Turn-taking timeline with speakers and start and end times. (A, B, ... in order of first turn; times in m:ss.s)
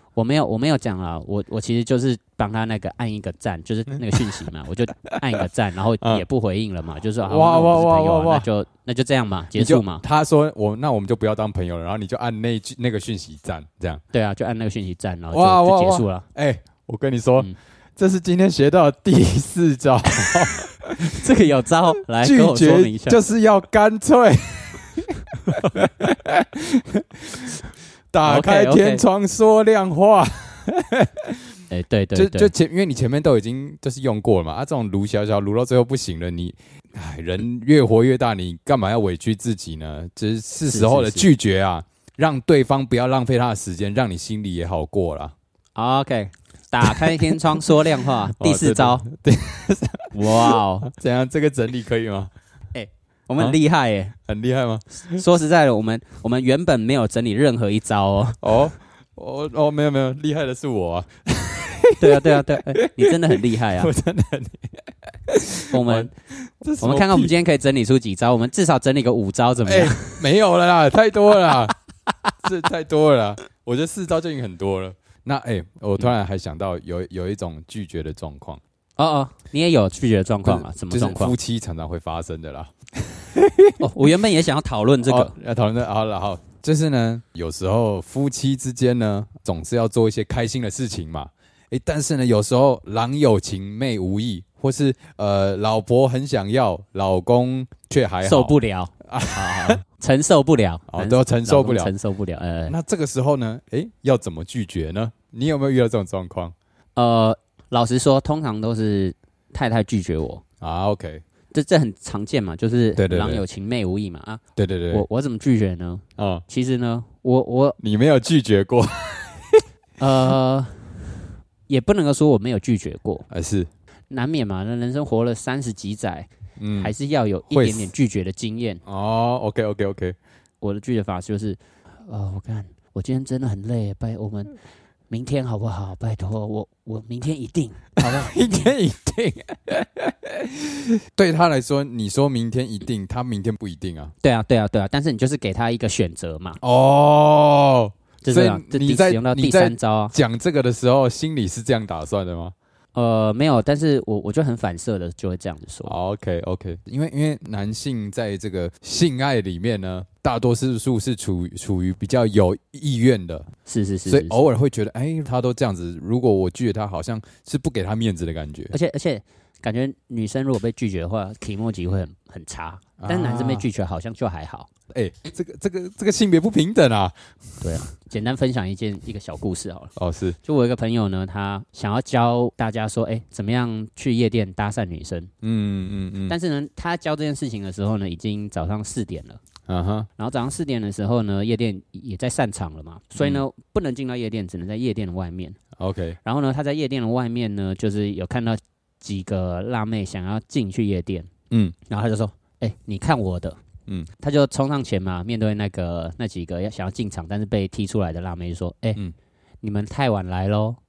0:00.2-0:10.0 A
0:07.2-0:08.5 B
0:09.6-0:14.0 B
0:14.1-0:16.2 A
0:15.3-0:21.2 B
0:21.0-0:23.2 A
0:22.2-0:27.6 B
0:28.1-0:31.5 B
0:28.2-0:29.0 A
0:31.7-0:32.5 A
0:32.2-0:45.3 B
0:40.7-0:41.3 A
0:45.8-0:49.0 A
0:46.8-0:47.6 B
0:48.3-0:52.3 B
0:50.1-0:50.9 A
0:52.7-0:54.1 A
0:54.2-0:55.2 B
0:55.1-0:58.4 A
0:58.4-1:07.3 B
1:02.0-1:03.9 A
1:05.7-1:06.1 A
1:06.8-1:10.2 A
1:09.6-1:11.8 B
1:12.4-1:18.6 B
1:19.0-1:21.4 A
1:20.4-1:23.8 B
1:23.8-1:25.3 A
1:25.0-1:39.8 B
1:38.2-1:42.8 A
1:40.9-1:41.9 B
1:42.7-1:46.5 B
1:47.0-1:50.4 A
1:50.6-1:51.2 B
1:51.5-1:57.8 A
1:53.0-1:53.4 B
1:54.6-1:55.0 B
1:56.2-1:56.4 B
1:57.8-1:59.6 B
2:00.0-2:01.0 A
2:01.7-2:03.3 A
2:03.3-2:03.7 B
2:04.1-2:08.8 A
2:06.6-2:06.9 B
2:07.5-2:07.9 B
2:08.9-2:10.2 B
2:10.6-2:14.6 A
2:15.1-2:18.7 A
2:18.0-2:24.1 B
2:24.2-2:26.6 A
2:26.6-2:32.5 B
2:28.2-2:30.2 A
2:33.0-2:36.0 A
2:35.8-2:43.5 B
2:43.7-2:44.4 A
2:44.1-2:48.7 B
2:48.7-2:54.7 A
2:53.0-2:53.7 B
2:54.9-2:57.6 B
2:57.6-2:59.9 A
3:00.0-3:00.4 B
3:00.4-3:05.3 A
3:05.4-3:06.4 B
3:06.3-3:09.4 A
3:09.7-3:10.1 B
3:10.2-3:15.6 A
3:13.2-3:13.4 B
3:15.8-3:16.2 B
3:16.2-3:21.3 A
3:21.5-3:21.8 B
3:21.9-3:23.6 A
3:24.2-3:29.0 A
3:29.6-3:30.8 A